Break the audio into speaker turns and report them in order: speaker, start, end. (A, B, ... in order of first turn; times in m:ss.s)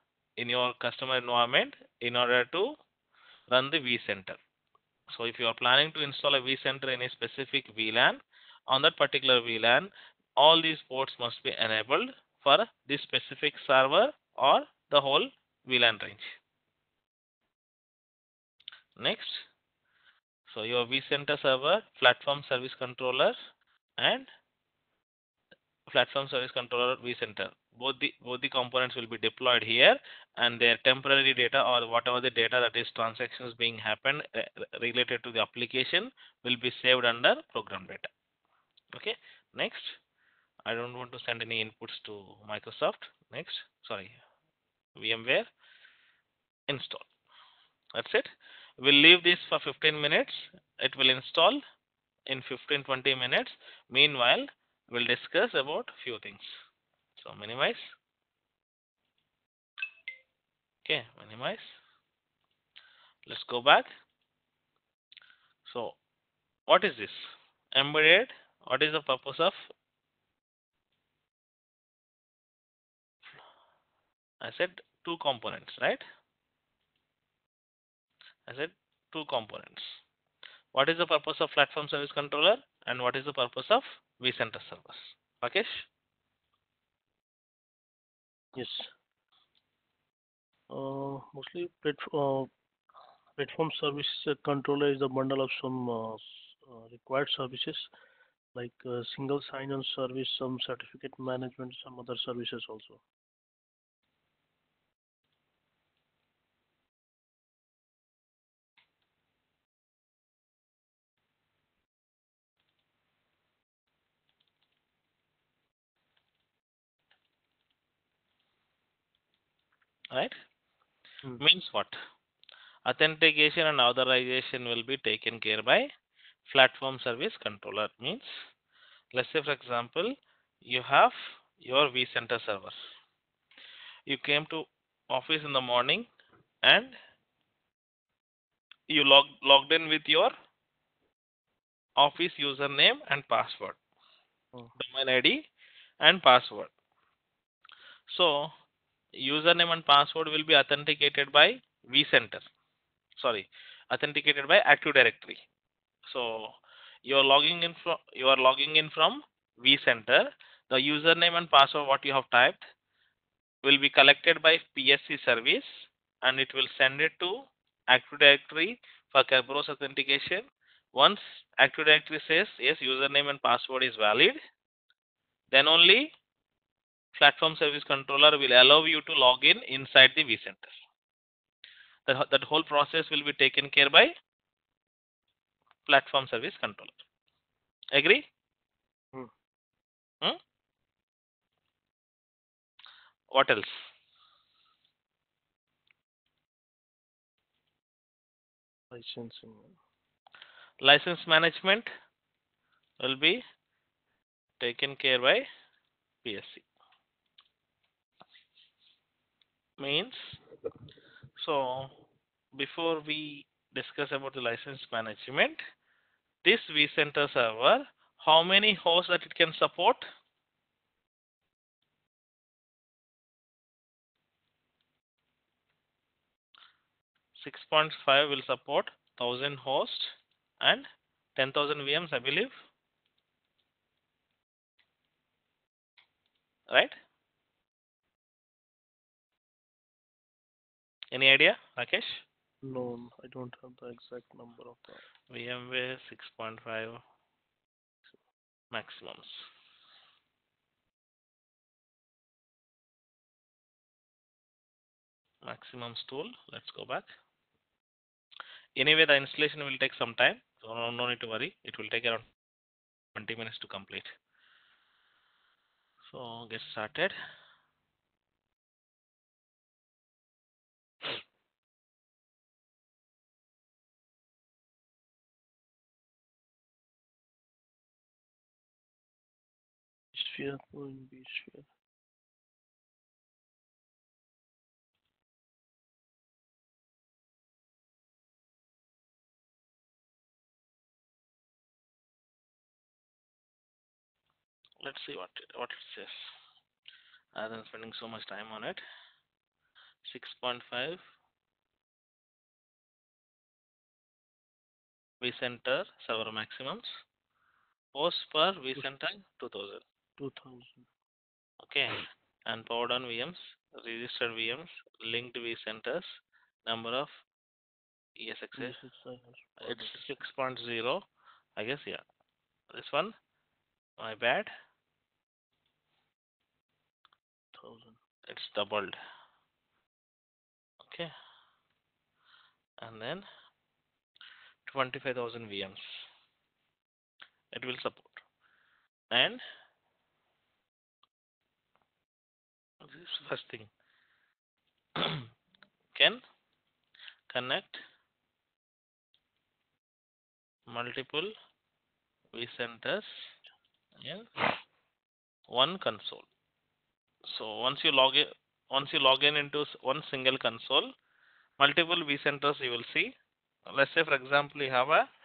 0:00.4-0:02.8 A
0:03.5-0:04.4 A
0:05.1-0:16.4 A
0:19.0-0:19.5 A
0:20.5-0:23.4 A
0:24.0-0:24.3 A
0:25.9-0:38.1 A
0:39.0-0:40.0 A
0:40.7-0:44.2 A
0:45.0-0:45.5 A
0:46.7-0:47.1 A
0:48.0-0:51.6 A
0:52.3-0:56.6 A
0:57.2-0:58.0 A
1:00.8-1:01.8 A
1:03.3-1:03.9 A
1:05.7-1:06.0 A
1:06.7-1:09.7 A
1:14.4-1:16.0 A
1:18.5-1:20.0 A
1:20.7-1:25.9 A
1:28.6-1:28.9 B
1:30.7-1:32.5 B
1:33.4-1:37.9 B
1:38.6-1:43.0 B
2:01.4-2:02.0 A
2:02.9-2:05.9 A
2:06.5-2:08.4 A
2:09.2-2:10.1 A
2:10.6-2:12.8 A
2:14.1-2:16.1 A
2:16.6-2:17.0 A
2:18.9-2:20.3 A
2:22.0-2:23.8 A
2:24.8-2:25.4 A
2:26.0-2:26.7 A
2:28.1-2:28.5 A
2:29.2-2:32.5 A
2:33.2-2:35.4 A
2:36.1-2:42.7 A
2:43.6-2:54.4 A
2:55.5-2:56.1 A
2:57.1-3:00.8 A
3:02.1-3:04.1 A
3:05.9-3:07.0 A
3:07.9-3:08.2 A
3:13.3-3:13.8 A
3:18.9-3:19.8 B
3:20.8-3:21.9 A
3:23.0-3:23.4 A
3:24.6-3:25.5 A
3:26.2-3:26.7 A
3:29.8-3:30.4 A
3:31.4-3:32.0 A
3:32.6-3:35.6 A
3:36.4-3:40.0 A
3:47.4-3:52.6 A
3:56.7-3:57.0 A
4:01.1-4:02.2 A
4:02.6-4:05.0 B
4:05.3-4:07.0 A
4:08.7-4:09.4 A
4:15.4-4:17.1 A
4:18.8-4:22.3 A
4:23.2-4:24.1 A
4:26.1-4:27.2 A
4:40.1-4:41.7 B
4:54.8-4:56.4 A
4:57.4-4:58.8 A
5:00.0-5:01.0 A
5:05.2-5:07.0 A
5:07.9-5:09.8 A
5:10.2-5:10.9 B
5:11.6-5:17.2 A
5:18.2-5:18.8 A
5:18.6-5:20.0 B
5:19.6-5:21.0 A
5:21.6-5:22.0 A
5:22.7-5:23.1 A
5:24.0-5:24.5 A
5:27.5-5:28.0 B
5:28.3-5:29.0 A
5:30.8-5:31.1 A
5:32.8-5:33.3 A
5:34.7-5:36.1 A
5:37.5-5:38.2 A
5:39.1-5:39.4 A
5:42.8-5:43.7 A
5:45.0-5:45.3 A
5:46.0-5:46.2 A
5:47.3-5:47.8 A
5:50.7-5:51.3 A
5:52.3-5:53.4 A
5:54.0-5:54.3 A
5:55.5-5:56.3 A
5:57.3-6:00.9 A
6:01.6-6:03.1 A
6:03.8-6:05.0 A